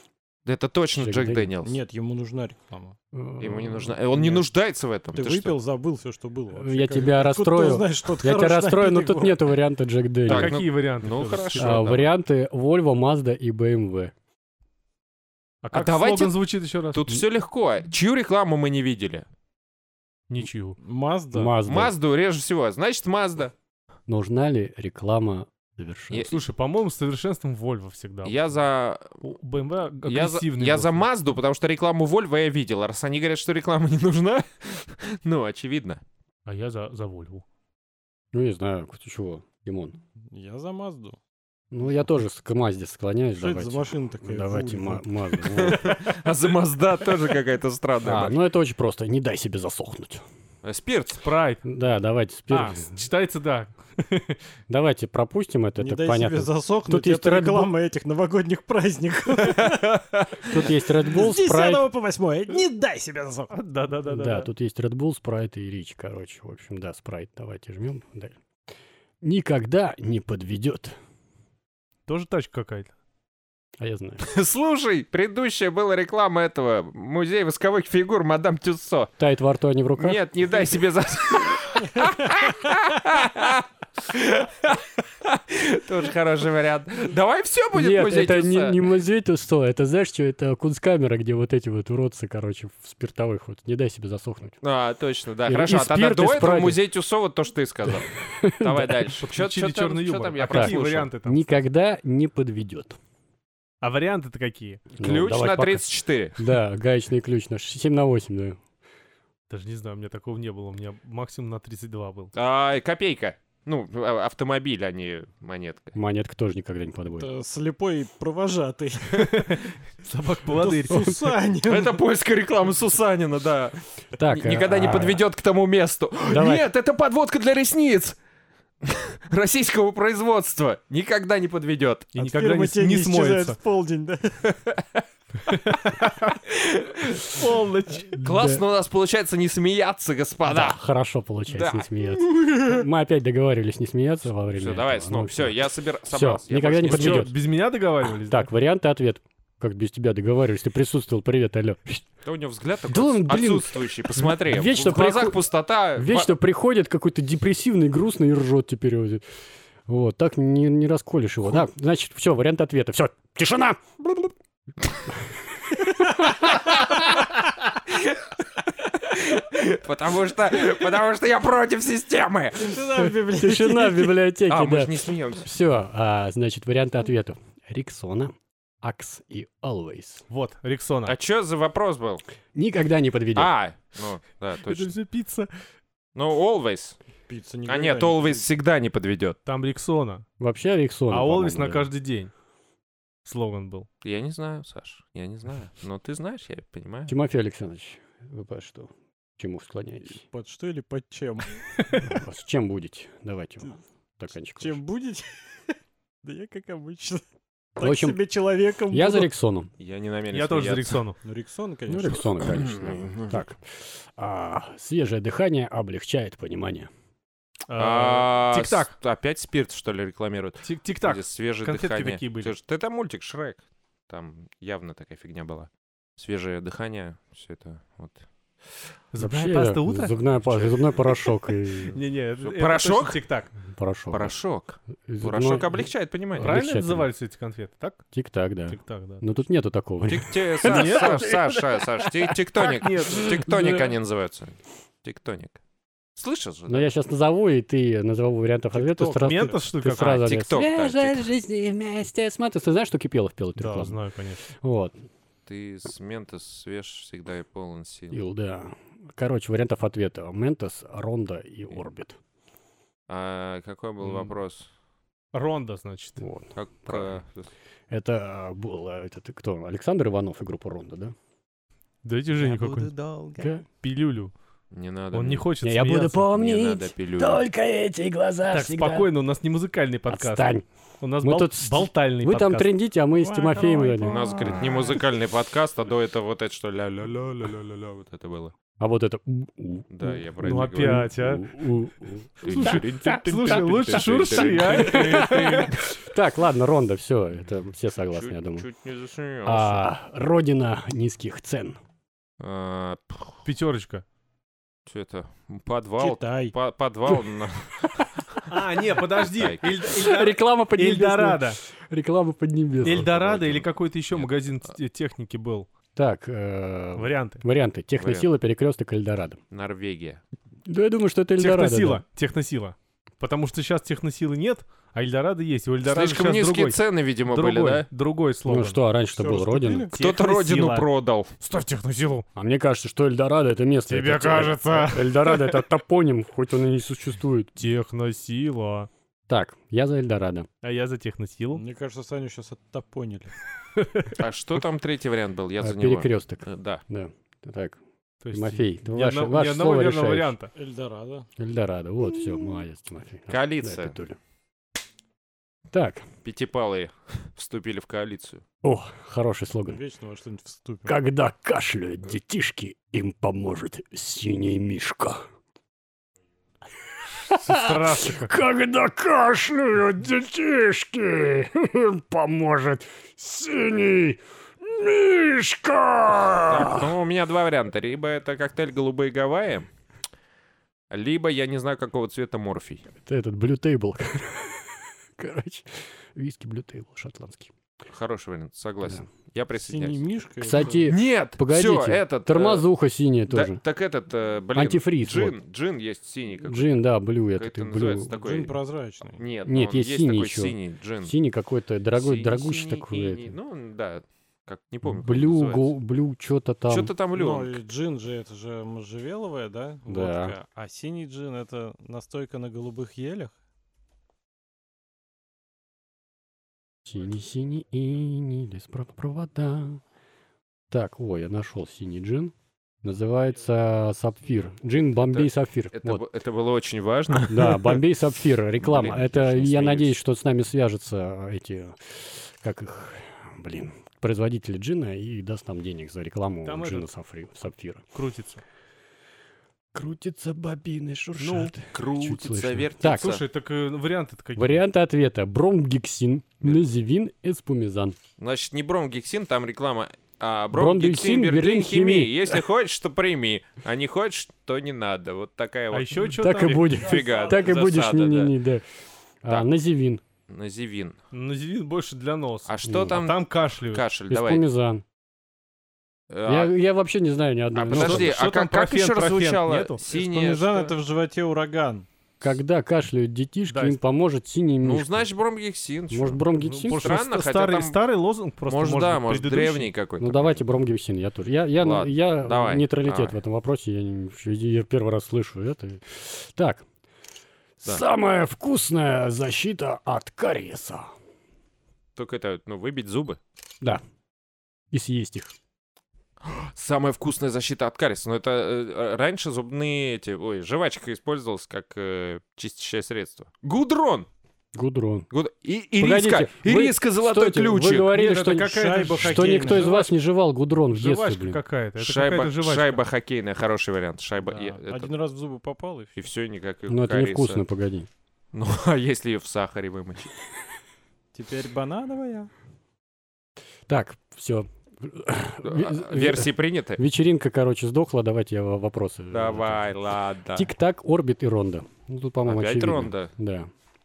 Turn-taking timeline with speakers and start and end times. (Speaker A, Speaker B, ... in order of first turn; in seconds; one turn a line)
Speaker A: 0.4-1.8
Speaker B: 0.9-1.5
Speaker C: 1.6-3.0
Speaker B: 3.1-4.0
Speaker A: 3.4-5.5
Speaker C: 4.1-4.5
Speaker C: 5.1-9.4
Speaker B: 6.5-10.5
Speaker A: 10.3-12.1
Speaker D: 10.3-11.8
Speaker B: 11.6-14.1
Speaker D: 15.6-17.2
Speaker A: 15.7-16.4
Speaker A: 16.9-19.2
Speaker D: 20.3-20.8
Speaker C: 20.8-21.6
Speaker B: 21.3-21.9
Speaker A: 21.6-23.5
Speaker B: 24.1-26.3
Speaker A: 26.1-26.4
Speaker D: 26.3-28.4
Speaker A: 28.2-29.1
Speaker D: 29.2-31.1
Speaker A: 30.0-36.0
Speaker D: 36.5-37.4
Speaker B: 38.3-40.0
Speaker C: 40.3-41.2
Speaker B: 41.7-45.9
Speaker C: 43.4-45.0
Speaker A: 45.5-48.3
Speaker B: 48.0-50.2
Speaker A: 50.6-51.2
Speaker D: 51.2-51.6
Speaker B: 51.6-53.0
Speaker D: 52.5-54.4
Speaker B: 54.7-57.7
Speaker C: 55.8-59.8
Speaker A: 59.6-59.8
Speaker B: 60.4-61.9
Speaker C: 61.1-63.5
Speaker D: 63.5-64.5
Speaker B: 64.1-68.3
Speaker B: 69.2-70.9
Speaker D: 72.1-72.9
Speaker B: 73.8-74.2
Speaker A: 74.2-79.1
Speaker B: 79.2-80.6
Speaker A: 80.0-88.8
Speaker B: 87.7-94.6
Speaker A: 94.6-101.1
Speaker B: 95.4-96.8
Speaker B: 98.3-99.2
Speaker D: 99.2-101.5
Speaker B: 100.5-103.0
Speaker D: 103.8-104.8
Speaker A: 105.0-106.5
Speaker B: 105.0-108.6
Speaker D: 109.5-112.3
Speaker A: 112.3-115.9
Speaker B: 116.0-117.3
Speaker C: 117.2-119.4
Speaker D: 119.1-121.0
Speaker C: 120.6-122.0
Speaker A: 121.6-128.2
Speaker B: 124.2-125.2
Speaker B: 126.3-126.7
Speaker A: 128.8-132.1
Speaker D: 132.1-133.6
Speaker C: 132.2-134.5
Speaker D: 135.5-136.3
Speaker A: 136.4-137.3
Speaker D: 137.3-138.2
Speaker B: 138.1-138.6
Speaker A: 138.2-140.8
Speaker B: 140.4-147.3
Speaker A: 141.5-141.9
Speaker A: 144.5-147.3
Speaker D: 146.8-148.5
Speaker B: 148.2-152.1
Speaker A: 152.2-156.3
Speaker B: 152.9-155.4
Speaker B: 155.9-159.2
Speaker B: 159.9-164.3
Speaker A: 166.3-168.1
Speaker A: 169.0-172.8
Speaker C: 172.5-174.2
Speaker B: 173.0-180.2
Speaker A: 174.5-175.5
Speaker D: 180.3-181.1
Speaker A: 181.1-182.2
Speaker B: 182.5-183.5
Speaker A: 183.3-184.9
Speaker D: 184.6-185.5
Speaker A: 186.1-187.0
Speaker C: 187.3-188.4
Speaker A: 187.7-189.4
Speaker D: 189.4-190.2
Speaker B: 190.4-191.9
Speaker D: 191.1-192.3
Speaker D: 193.2-193.9
Speaker A: 194.0-197.1
Speaker B: 197.1-200.2
Speaker C: 200.0-201.6
Speaker D: 201.8-202.0
Speaker B: 202.0-204.8
Speaker C: 204.6-207.2
Speaker C: 207.8-209.3
Speaker B: 207.8-208.2
Speaker B: 208.9-209.7
Speaker A: 209.8-211.0
Speaker D: 210.3-211.2
Speaker C: 211.2-212.3
Speaker B: 211.9-213.6
Speaker A: 212.6-213.2
Speaker B: 214.2-216.9
Speaker D: 217.7-218.9
Speaker A: 217.8-228.2
Speaker D: 220.6-222.5
Speaker D: 229.1-230.2
Speaker B: 229.2-232.0
Speaker A: 230.5-231.3
Speaker D: 231.9-233.5
Speaker A: 232.4-233.2
Speaker B: 233.7-234.3
Speaker A: 234.1-236.6
Speaker B: 235.1-237.1
Speaker D: 236.4-238.0
Speaker B: 238.1-241.2
Speaker D: 238.7-239.4
Speaker A: 240.1-245.6
Speaker D: 240.6-243.8
Speaker A: 246.2-246.9
Speaker B: 246.7-254.0
Speaker C: 248.7-249.6
Speaker D: 249.2-250.2
Speaker A: 250.1-251.3
Speaker D: 253.6-254.5
Speaker B: 254.6-254.9
Speaker A: 255.4-258.2
Speaker B: 258.1-262.2
Speaker A: 263.1-264.7
Speaker D: 265.3-266.2
Speaker B: 266.2-267.2
Speaker A: 266.5-267.5
Speaker B: 267.9-271.1
Speaker D: 272.0-272.9
Speaker C: 272.4-273.5
Speaker B: 273.4-273.6
Speaker D: 273.7-274.3
Speaker A: 274.7-275.5
Speaker D: 275.1-276.3
Speaker B: 275.6-279.1
Speaker A: 276.3-277.4
Speaker D: 278.5-282.7
Speaker B: 280.1-280.6
Speaker B: 281.2-284.2
Speaker C: 283.1-285.0
Speaker A: 284.0-288.5
Speaker B: 288.8-293.6
Speaker A: 289.9-291.1
Speaker D: 290.4-291.5
Speaker A: 292.4-295.7
Speaker D: 292.5-295.7
Speaker B: 294.6-298.6
Speaker A: 298.1-299.9
Speaker B: 299.4-301.8
Speaker A: 302.4-303.4
Speaker D: 303.4-304.0
Speaker A: 304.9-308.4
Speaker C: 306.0-306.5
Speaker D: 308.5-311.6
Speaker A: 309.3-309.9
Speaker B: 310.0-313.6
Speaker D: 312.8-315.7
Speaker A: 313.1-313.6
Speaker B: 315.9-319.4
Speaker D: 316.9-317.4
Speaker A: 318.0-318.3
Speaker A: 319.5-320.2
Speaker B: 320.7-322.0
Speaker D: 321.4-328.8
Speaker A: 325.8-327.9
Speaker B: 328.4-329.9
Speaker C: 329.1-329.9
Speaker D: 329.9-330.9
Speaker A: 330.0-331.3
Speaker D: 331.4-332.2
Speaker B: 332.4-337.6
Speaker D: 333.9-335.5
Speaker D: 337.6-338.9
Speaker B: 339.3-340.5
Speaker D: 340.6-341.6
Speaker C: 341.5-343.3
Speaker D: 343.8-344.2
Speaker A: 344.2-346.8
Speaker B: 345.6-347.8
Speaker D: 348.2-350.5
Speaker B: 348.3-350.4
Speaker C: 350.5-351.3
Speaker B: 351.4-354.2
Speaker A: 353.3-353.9
Speaker B: 355.7-356.0
Speaker A: 356.2-358.4
Speaker B: 358.6-359.8
Speaker C: 359.7-360.9
Speaker B: 360.9-365.2
Speaker B: 367.3-376.9
Speaker D: 367.4-368.3
Speaker A: 376.2-379.7
Speaker A: 380.9-382.8
Speaker B: 383.0-387.5
Speaker A: 387.9-390.1
Speaker C: 389.5-390.9
Speaker B: 390.4-393.6
Speaker A: 390.8-392.7
Speaker A: 393.3-398.5
Speaker B: 394.5-395.4
Speaker B: 396.4-398.1
Speaker C: 398.1-399.2
Speaker A: 399.2-401.1
Speaker B: 399.4-403.4
Speaker A: 401.9-405.8
Speaker B: 404.8-406.9
Speaker A: 406.7-407.6
Speaker C: 407.1-413.3
Speaker B: 409.9-410.4
Speaker B: 416.9-419.8
Speaker B: 420.7-422.3
Speaker B: 422.8-426.0
Speaker A: 425.1-427.8
Speaker B: 427.3-437.8
Speaker A: 428.6-429.9
Speaker D: 436.4-436.9
Speaker D: 437.9-438.4
Speaker B: 439.7-443.2
Speaker D: 441.2-441.5
Speaker A: 441.7-443.2
Speaker D: 442.9-444.6
Speaker B: 444.4-448.0
Speaker A: 448.2-456.0
Speaker B: 450.5-452.4
Speaker D: 455.7-457.1
Speaker B: 456.1-458.6
Speaker A: 456.8-458.3
Speaker B: 459.2-460.0
Speaker A: 460.3-461.0
Speaker D: 461.1-463.9
Speaker A: 462.4-464.4
Speaker B: 462.7-463.0
Speaker B: 464.1-464.8
Speaker A: 466.1-466.5
Speaker B: 466.2-468.2
Speaker A: 467.5-470.7
Speaker D: 467.7-469.8
Speaker C: 469.9-471.9
Speaker B: 472.2-475.1
Speaker D: 473.5-473.8
Speaker A: 474.6-477.8
Speaker B: 475.9-476.9
Speaker D: 476.4-479.7
Speaker A: 478.4-480.4
Speaker B: 480.0-486.6
Speaker A: 481.6-483.2
Speaker B: 487.6-490.9
Speaker A: 491.9-493.2
Speaker B: 494.7-495.4
Speaker A: 496.2-504.1
Speaker B: 504.5-505.1
Speaker A: 505.1-507.9
Speaker B: 505.8-511.4
Speaker D: 507.9-509.9
Speaker C: 508.5-509.7
Speaker D: 510.7-512.8
Speaker A: 511.8-514.9
Speaker C: 514.2-515.9
Speaker A: 516.0-517.4
Speaker B: 516.7-517.9
Speaker A: 518.3-520.1
Speaker C: 521.1-522.3
Speaker B: 523.7-529.7
Speaker A: 525.4-526.8
Speaker A: 529.1-530.5
Speaker B: 530.4-533.5
Speaker A: 532.2-533.1